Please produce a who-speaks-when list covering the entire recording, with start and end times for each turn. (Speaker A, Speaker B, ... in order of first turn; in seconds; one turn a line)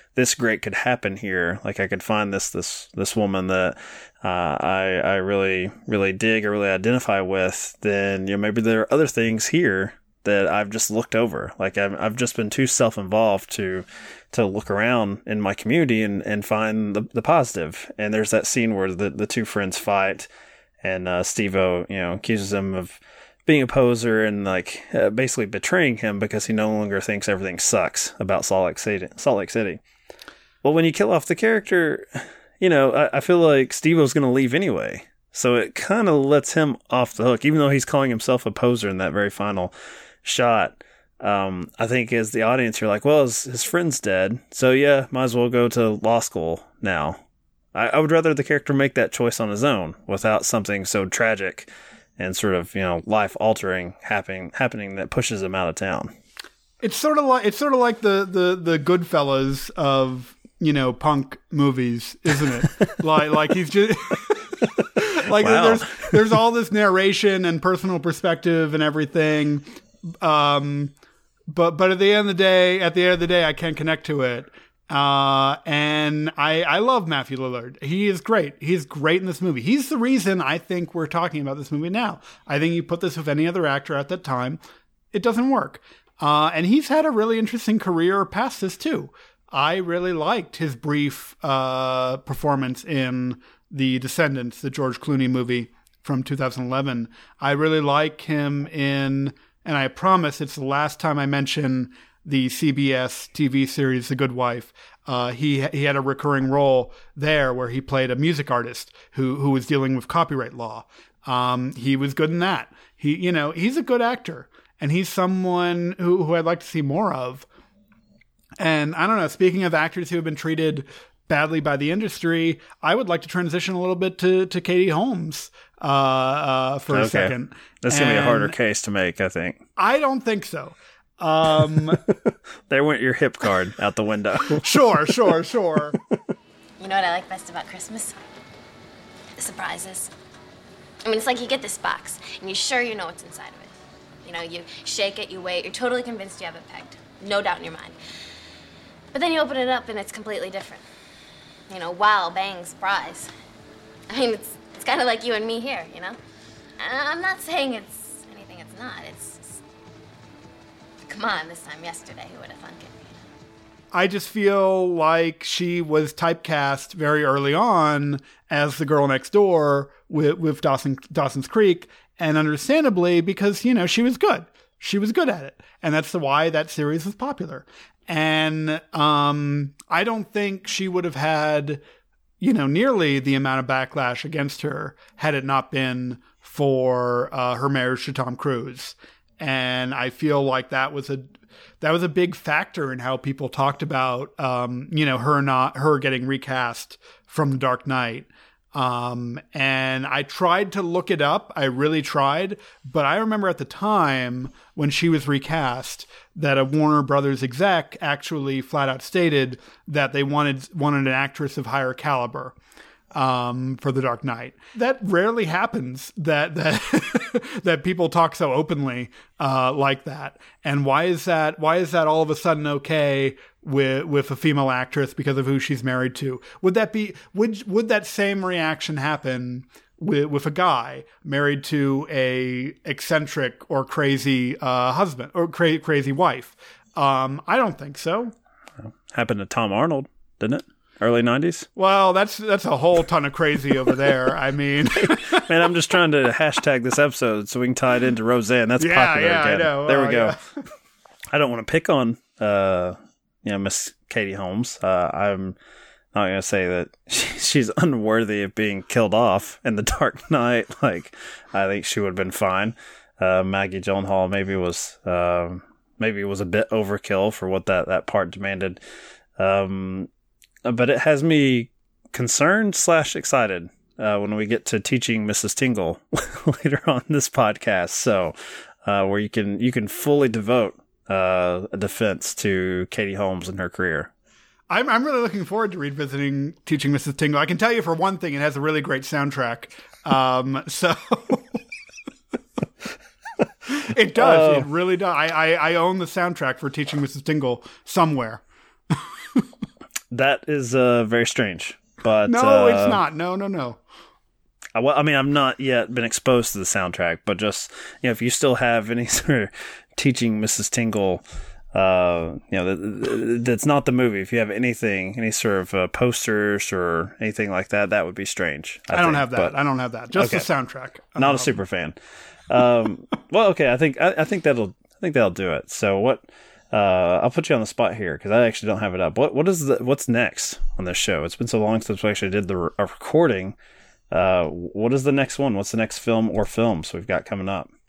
Speaker A: 0.1-20.3
Speaker A: 20.8-29.8
Speaker A: 30.6-39.7
Speaker A: 40.2-47.2
Speaker A: 47.7-56.1
Speaker B: 56.8-69.6
Speaker A: 65.3-66.2
Speaker B: 70.2-70.9
Speaker B: 71.5-84.6
Speaker B: 85.1-117.5
Speaker B: 118.6-128.5
Speaker A: 126.9-129.6
Speaker B: 129.8-132.0
Speaker A: 132.7-134.7
Speaker B: 134.6-136.0
Speaker C: 136.8-138.2
Speaker C: 139.4-140.1
Speaker C: 141.0-147.9
Speaker C: 149.1-150.8
Speaker C: 151.7-153.3
Speaker C: 154.1-156.2
Speaker C: 156.8-159.6
Speaker C: 161.1-163.1
Speaker B: 163.9-181.8
Speaker B: 182.4-212.5
Speaker B: 213.1-238.3
Speaker A: 238.8-241.7
Speaker B: 241.8-245.5
Speaker A: 245.4-250.3
Speaker B: 248.8-250.5
Speaker A: 251.3-255.5
Speaker A: 256.1-268.8
Speaker A: 269.4-270.1
Speaker A: 270.6-284.1
Speaker B: 284.7-291.4
Speaker B: 293.7-298.4
Speaker A: 294.2-294.7
Speaker A: 300.1-303.0
Speaker B: 302.3-303.8
Speaker A: 304.7-311.2
Speaker A: 311.7-319.5
Speaker B: 318.9-321.6
Speaker A: 320.1-320.4
Speaker A: 321.1-321.9
Speaker A: 322.5-333.5
Speaker A: 334.1-337.7